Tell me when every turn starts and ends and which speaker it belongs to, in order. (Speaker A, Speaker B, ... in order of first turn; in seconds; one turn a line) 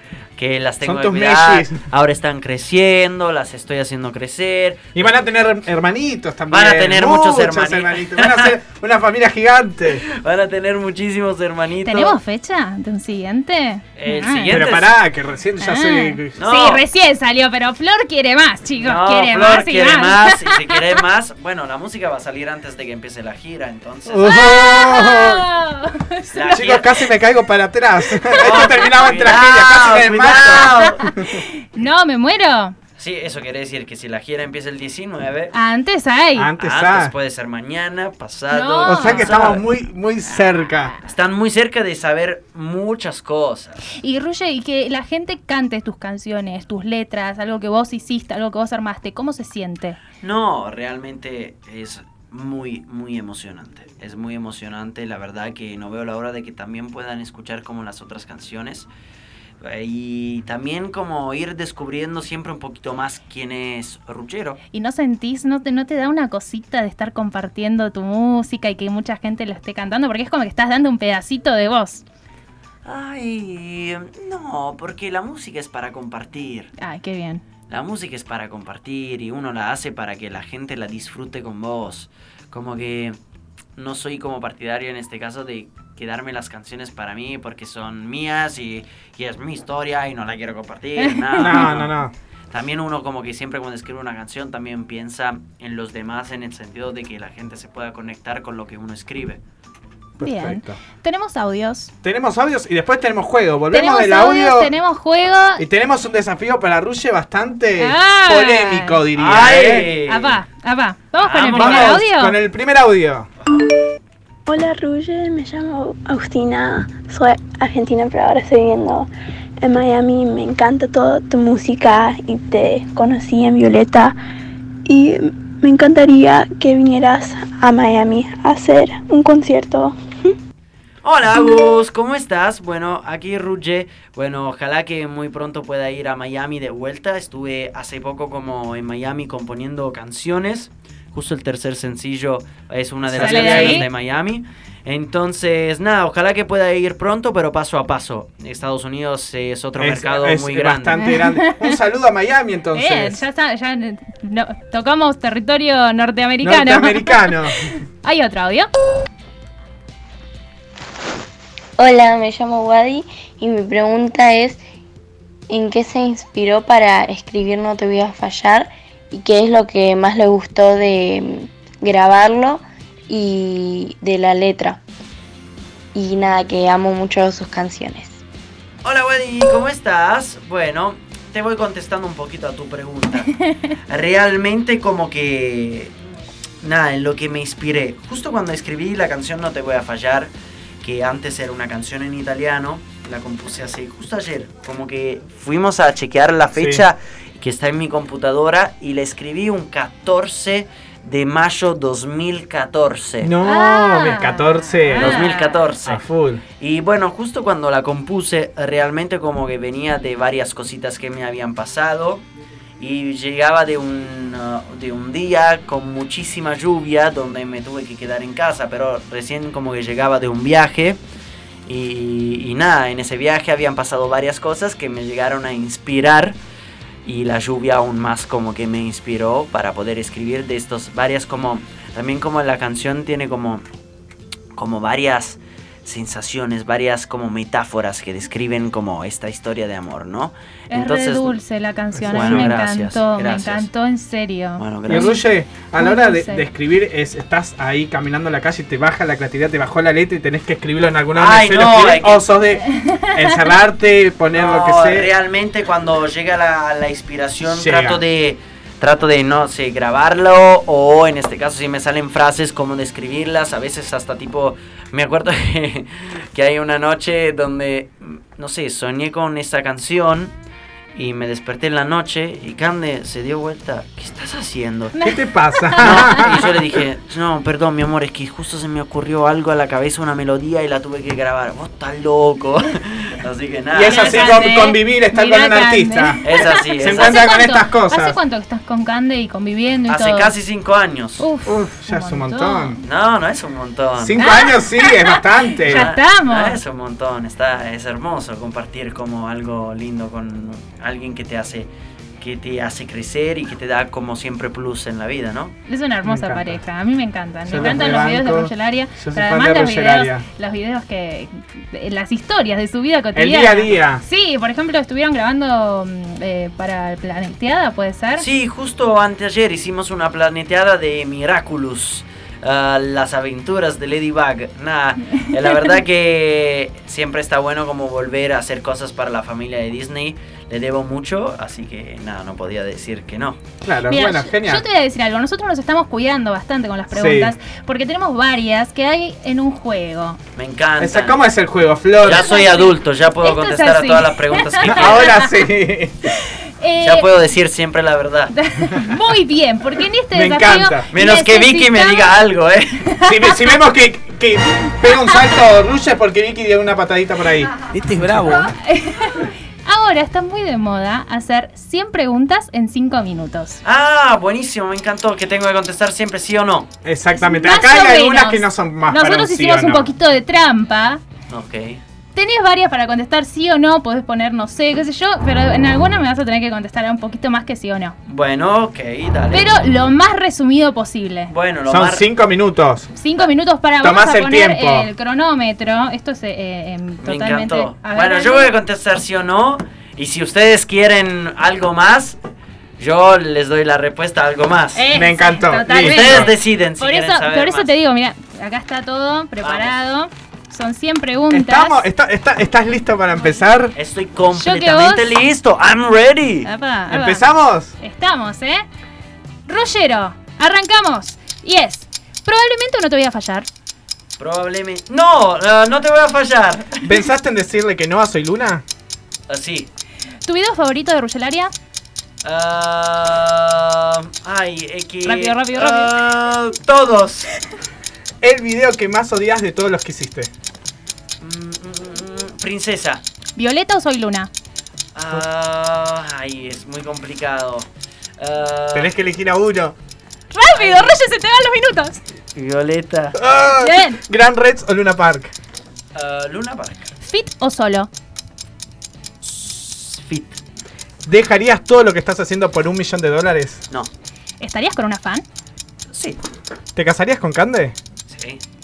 Speaker A: 0.4-5.2
Speaker B: 0.8-1.8
Speaker B: 5.0-10.0
Speaker A: 6.5-8.6
Speaker A: 10.0-12.2
Speaker C: 11.8-14.6
Speaker A: 14.0-14.9
Speaker B: 14.5-16.4
Speaker C: 15.6-20.8
Speaker A: 16.4-16.8
Speaker A: 18.8-24.4
Speaker B: 24.1-25.4
Speaker C: 24.2-26.6
Speaker A: 26.3-27.0
Speaker B: 26.5-31.4
Speaker A: 28.4-31.1
Speaker C: 30.8-32.8
Speaker A: 33.0-35.5
Speaker C: 35.5-36.5
Speaker B: 36.4-37.1
Speaker A: 36.6-39.7
Speaker C: 38.5-39.4
Speaker B: 38.8-40.9
Speaker A: 41.1-43.8
Speaker C: 44.0-50.0
Speaker A: 50.2-58.9
Speaker A: 59.6-64.6
Speaker C: 64.7-72.0
Speaker A: 72.8-76.7
Speaker C: 76.8-77.4
Speaker A: 77.7-83.2
Speaker A: 83.8-91.9
Speaker C: 91.0-91.7
Speaker B: 91.4-92.1
Speaker A: 92.5-99.4
Speaker B: 100.2-100.8
Speaker C: 100.2-101.9
Speaker B: 102.0-104.7
Speaker C: 103.7-105.6
Speaker B: 105.6-109.9
Speaker C: 107.8-109.0
Speaker A: 109.1-110.4
Speaker C: 110.1-112.4
Speaker A: 111.2-112.0
Speaker B: 111.5-113.3
Speaker D: 114.5-124.2
Speaker D: 124.9-130.0
Speaker A: 131.0-151.0
Speaker B: 143.1-143.9
Speaker C: 143.2-143.9
Speaker B: 149.8-153.2
Speaker C: 151.0-151.8
Speaker C: 152.8-158.7
Speaker B: 156.4-157.7
Speaker E: 161.8-164.6
Speaker E: 165.5-174.8
Speaker E: 175.9-178.2
Speaker A: 178.8-183.3
Speaker C: 183.4-183.7
Speaker A: 183.9-185.9
Speaker A: 186.6-203.3
Speaker B: 196.5-196.8
Speaker B: 203.2-205.3
Speaker C: 203.4-205.6
Speaker A: 205.0-206.0
Speaker B: 205.8-206.4
Speaker A: 206.6-212.3
Speaker A: 212.8-221.0
Speaker A: 221.7-226.4
Speaker A: 227.1-233.6
Speaker A: 234.6-241.4
Speaker C: 240.7-246.5
Speaker B: 241.9-242.6
Speaker A: 242.1-243.7
Speaker A: 244.6-245.1
Speaker B: 244.9-255.1
Speaker A: 251.1-252.3
Speaker C: 252.7-253.5
Speaker A: 254.3-270.4
Speaker B: 257.5-258.0
Speaker A: 270.9-274.9
Speaker C: 274.9-276.2
Speaker B: 275.0-276.8
Speaker A: 275.8-284.5
Speaker B: 283.7-288.2
Speaker C: 283.9-290.3
Speaker A: 286.2-287.2
Speaker A: 289.9-291.3
Speaker C: 291.2-292.8
Speaker B: 291.5-292.8
Speaker A: 292.8-294.2
Speaker B: 294.0-295.9
Speaker C: 294.2-296.6
Speaker A: 295.7-305.6
Speaker C: 305.7-318.2
Speaker B: 306.1-306.6
Speaker B: 307.5-310.2
Speaker B: 313.1-314.0
Speaker A: 318.2-333.4
Speaker B: 333.6-334.6
Speaker C: 333.9-340.2
Speaker B: 336.9-337.3
Speaker A: 340.4-341.2
Speaker B: 340.8-342.4
Speaker A: 342.0-345.1
Speaker C: 342.1-345.3
Speaker B: 344.7-346.1
Speaker C: 346.1-347.1
Speaker A: 346.8-348.4
Speaker C: 348.3-352.2
Speaker B: 350.1-350.9
Speaker A: 350.9-352.9
Speaker C: 352.9-353.2
Speaker B: 353.0-358.6
Speaker C: 358.3-363.6
Speaker A: 363.6-366.7
Speaker B: 366.8-369.9
Speaker C: 367.2-371.0
Speaker A: 371.3-371.8
Speaker C: 372.1-378.0
Speaker A: 378.1-379.5
Speaker C: 379.3-381.3
Speaker A: 381.3-382.1
Speaker B: 381.7-382.9
Speaker C: 383.0-388.6
Speaker B: 383.8-384.9
Speaker A: 387.0-392.2
Speaker A: 392.8-394.9
Speaker C: 394.8-401.9
Speaker B: 394.9-396.3
Speaker A: 395.7-397.7
Speaker A: 399.4-399.7
Speaker B: 401.3-403.8
Speaker A: 403.8-406.5
Speaker C: 404.3-405.1
Speaker C: 406.4-407.2
Speaker B: 406.9-407.8
Speaker C: 407.8-408.6
Speaker C: 409.5-413.5
Speaker A: 414.2-416.9
Speaker B: 416.8-418.6
Speaker A: 419.3-419.7
Speaker C: 420.2-421.5
Speaker A: 422.2-427.3
Speaker C: 425.1-425.9
Speaker B: 428.2-430.3
Speaker A: 431.2-433.0
Speaker C: 433.4-434.3
Speaker A: 434.9-438.9
Speaker B: 438.7-439.8
Speaker C: 440.3-442.0
Speaker A: 440.6-440.9
Speaker A: 442.4-443.2
Speaker B: 443.2-445.3
Speaker C: 443.6-444.0
Speaker A: 445.9-446.8
Speaker C: 447.0-447.9
Speaker A: 449.2-450.4
Speaker B: 451.1-453.6
Speaker C: 454.4-455.2
Speaker A: 455.9-456.2
Speaker B: 456.8-457.8
Speaker A: 458.1-458.4